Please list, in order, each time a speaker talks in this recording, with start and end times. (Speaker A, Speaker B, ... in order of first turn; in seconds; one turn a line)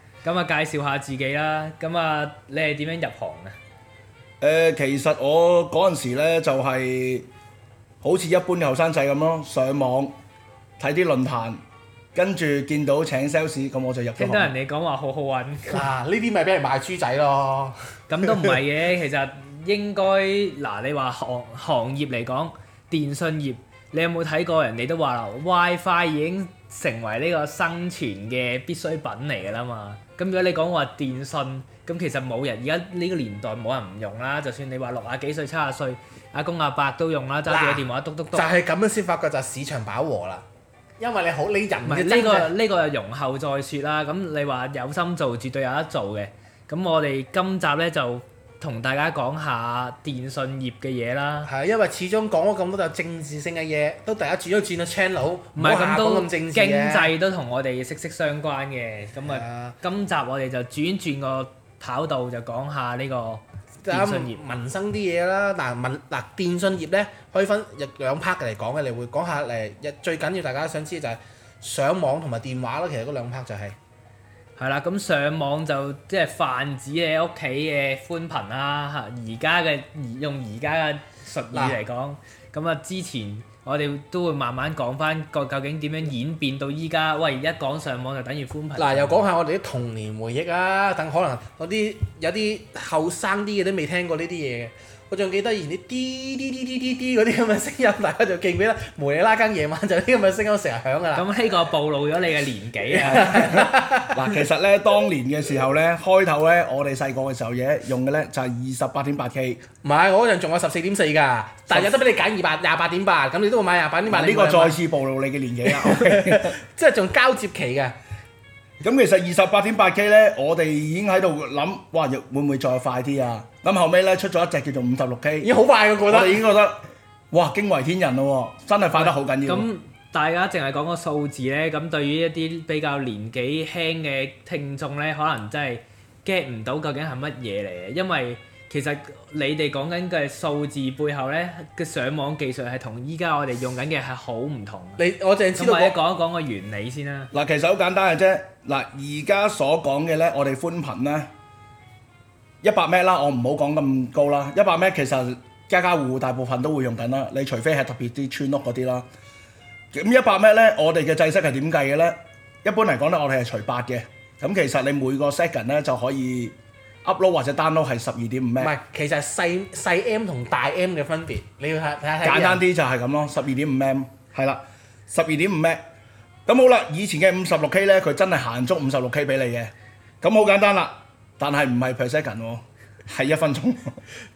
Speaker A: 0.2-3.5
Speaker B: 4.4-7.3
Speaker B: 8.0-10.1
Speaker B: 10.8-11.6
Speaker B: 12.1-14.5
Speaker A: 14.2-15.8
Speaker C: 15.7-18.5
Speaker A: 18.1-38.5
Speaker C: 37.5-37.8
Speaker C: 38.3-40.4
Speaker C: 41.0-42.5
Speaker A: 41.8-51.5
Speaker C: 51.5-57.1
Speaker A: 55.5-64.4
Speaker C: 59.2-59.8
Speaker C: 63.8-73.8
Speaker A: 74.6-89.2
Speaker C: 88.8-101.3
Speaker A: 101.1-103.6
Speaker C: 102.9-104.4
Speaker B: 103.0-109.6
Speaker C: 109.8-114.8
Speaker B: 114.1-116.5
Speaker C: 115.7-117.9
Speaker B: 118.8-125.5
Speaker C: 125.4-126.4
Speaker B: 126.1-126.8
Speaker B: 127.3-129.7
Speaker A: 129.0-145.0
Speaker C: 145.0-145.9
Speaker A: 145.6-147.3
Speaker B: 147.3-151.3
Speaker B: 152.6-159.1
Speaker B: 159.9-168.7
Speaker C: 168.6-172.6
Speaker B: 172.2-175.8
Speaker B: 176.4-184.0